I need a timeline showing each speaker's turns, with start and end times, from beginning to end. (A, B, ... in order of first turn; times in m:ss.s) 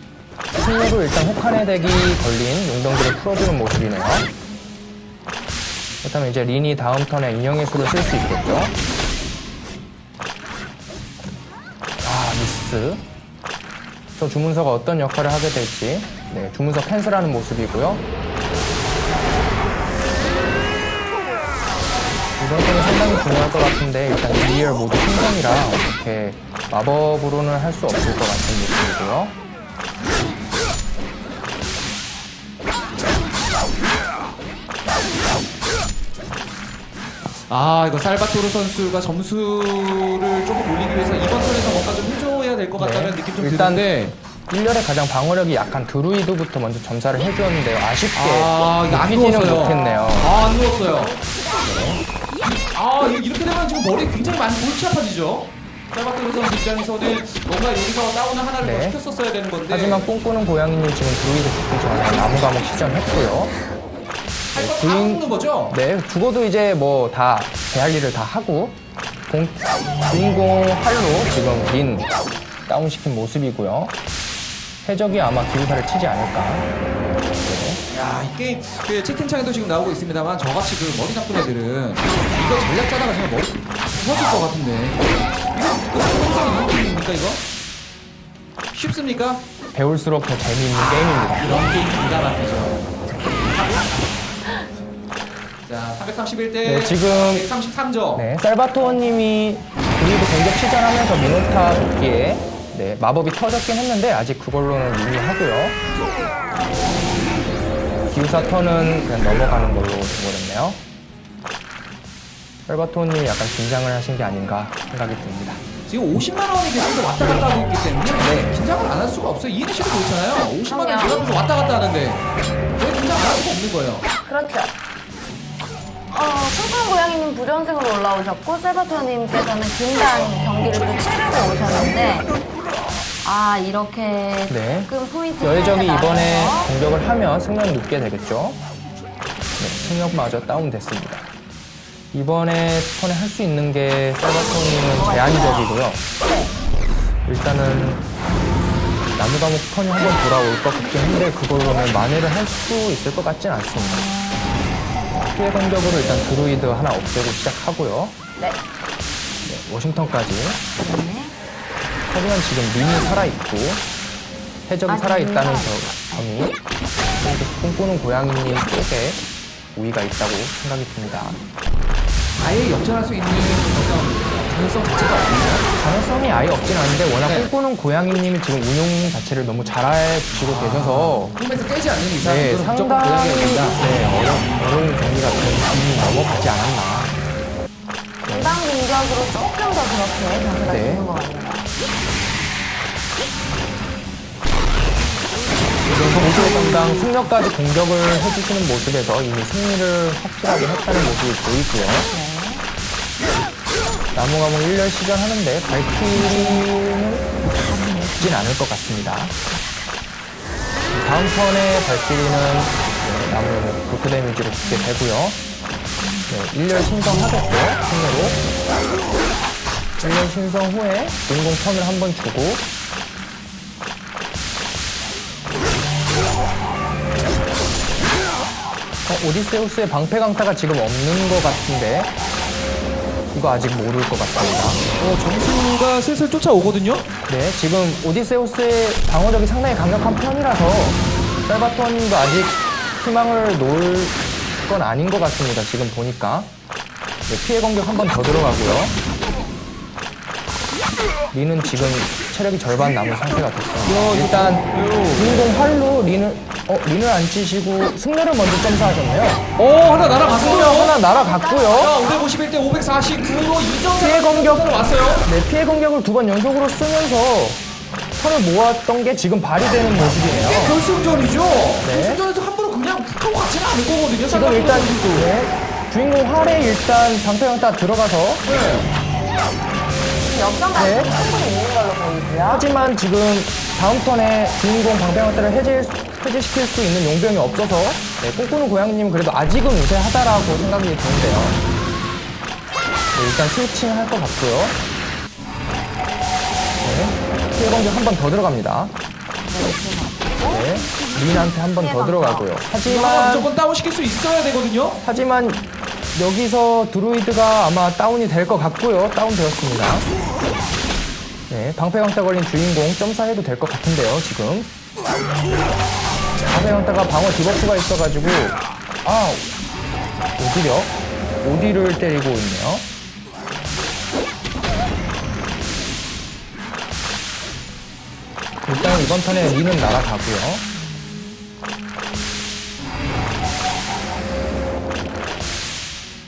0:00.5-0:04.3 A
0:06.0-0:08.7 A
0:12.0-0:13.0 A
0:14.2-0:18.0 A
0:22.4-0:29.3 A
0:37.3-0:44.2 B
0:42.8-0:50.4 A
0:48.1-0:51.2 B
0:49.5-0:50.2 C
0:51.6-0:52.0 A
0:52.5-1:00.0 B
0:58.6-0:59.0 A
0:59.7-1:03.6 A
1:04.5-1:05.8 B
1:04.5-1:12.1 A
1:12.7-1:13.9 A
1:14.8-1:16.7 A
1:17.4-1:17.8 A
1:17.9-1:27.4 B
1:28.7-1:29.4 B
1:29.7-1:31.5 A
1:30.7-1:34.4 B
1:35.6-1:38.3 B
1:36.6-1:37.5 A
1:38.1-1:45.8 A
1:48.1-1:50.8 A
1:52.7-1:55.6 A
1:55.9-2:02.2 B
2:00.6-2:01.3 C
2:02.8-2:04.1 B
2:04.2-2:04.7 C
2:06.1-2:12.3 C
2:13.2-2:16.7 C
2:14.5-2:18.6 A
2:19.6-2:21.3 A
2:22.1-2:26.0 A
2:24.9-2:26.5 C
2:27.2-2:28.1 A
2:29.2-2:34.1 A
2:33.7-2:34.6 C
2:35.2-2:38.1 A
2:39.4-2:40.6 A
2:40.8-2:41.3 C
2:42.1-2:43.8 A
2:44.7-2:46.6 A
2:44.9-2:46.3 C
2:47.2-2:49.2 A
2:49.7-2:51.4 A
2:52.4-2:55.7 B
2:55.8-3:01.3 A
2:57.2-2:57.5 B
3:00.4-3:03.8 B
3:02.2-3:07.2 A
3:08.2-3:08.6 A
3:08.2-3:11.7 C
3:10.6-3:11.1 A
3:15.8-3:22.1 A
3:16.2-3:17.0 C
3:22.0-3:22.6 C
3:24.1-3:27.3 A
3:26.2-3:26.7 C
3:27.5-3:28.5 C
3:28.0-3:29.3 A
3:30.9-3:35.4 A
3:34.6-3:34.9 C
3:36.0-3:36.3 C
3:36.3-3:38.4 A
3:40.0-3:42.7 A
3:49.1-3:52.1 A
3:53.3-3:54.8 A
3:55.0-3:57.1 B
3:57.3-4:06.5 A
4:07.3-4:09.0 A
4:11.3-4:19.4 A
4:13.8-4:15.4 B
4:19.6-4:21.0 B
4:20.3-4:21.9 A
4:21.0-4:22.3 C
4:21.7-4:25.3 B
4:24.0-4:27.6 A
4:28.2-4:30.8 A
4:30.3-4:35.3 B
4:31.8-4:32.2 A
4:34.3-4:38.4 A
4:38.4-4:38.9 B
4:40.2-4:42.7 C
4:40.7-4:41.1 A
4:42.4-4:51.6 A
4:53.1-4:54.8 A
4:56.8-4:58.9 A
4:59.4-5:00.7 C
5:00.5-5:03.5 A
5:01.7-5:02.6 C
5:02.8-5:05.0 B
5:05.0-5:10.1 A
5:11.5-5:14.7 A
5:16.5-5:19.5 A
5:20.4-5:22.8 A
5:28.6-5:30.6 A
5:28.7-5:29.6 C
5:30.7-5:31.3 C